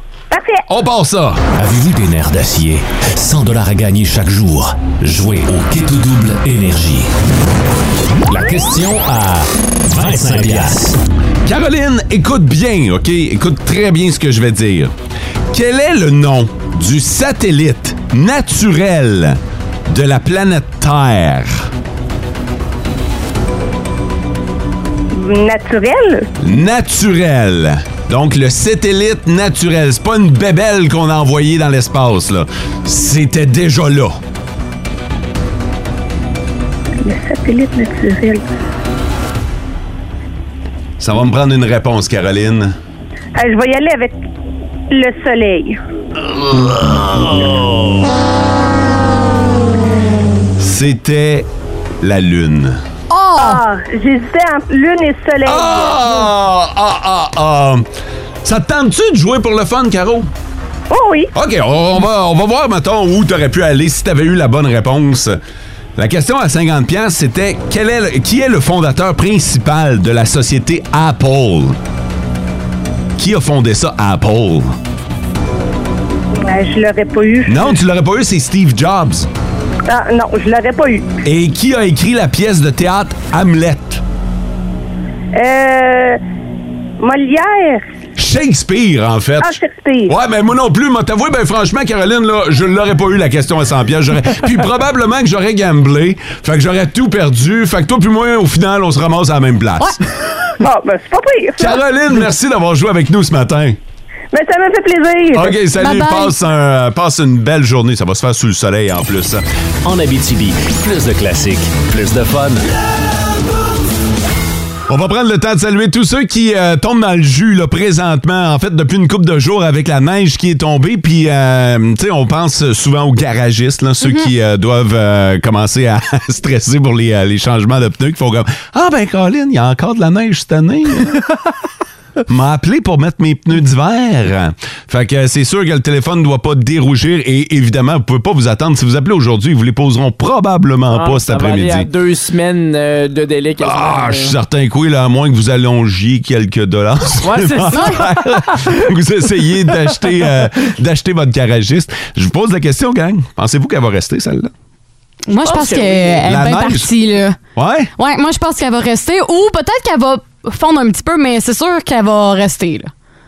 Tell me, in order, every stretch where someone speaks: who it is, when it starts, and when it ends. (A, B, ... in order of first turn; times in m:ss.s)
0:00.3-0:00.6 A
0:00.7-0:01.4 B
0:01.6-0:07.1 C
0:08.3-0:11.0 C
0:11.4-0:14.9 B
0:15.5-0:21.7 B
0:25.1-0:26.2 A
0:26.4-0:34.2 B
0:37.0-0:38.4 A
0:41.0-0:42.7 B
0:43.4-0:44.2 A
0:44.9-0:45.8 A
0:46.3-0:48.0 B
0:50.6-0:51.5 B
0:52.0-0:52.8 B
0:53.1-0:53.6 D
0:53.4-0:56.0 A
0:55.4-0:57.8 B
0:58.4-1:00.3 B
1:00.9-1:01.3 A
1:01.3-1:05.4 B
1:06.0-1:11.8 B
1:13.2-1:14.7 B
1:16.4-1:17.8 A
1:17.5-1:19.3 B
1:19.9-1:21.0 A
1:21.2-1:24.0 B
1:25.3-1:26.2 A
1:27.0-1:27.8 A
1:28.2-1:29.6 B
1:29.4-1:30.1 A
1:30.1-1:40.0 B
1:40.6-1:41.8 A
1:41.6-1:43.8 B
1:44.3-1:45.6 A
1:45.3-1:49.4 B
1:45.8-1:46.3 D
1:49.8-1:52.6 C
1:54.9-2:11.1 B
2:12.3-2:21.9 B
2:20.9-2:24.3 E
2:23.6-2:34.5 B
2:27.2-2:28.8 E
2:27.7-2:28.0 D
2:35.3-2:37.4 D
2:35.4-2:36.2 E
2:36.2-2:36.9 B
2:37.6-2:37.9 B
2:38.0-2:42.9 D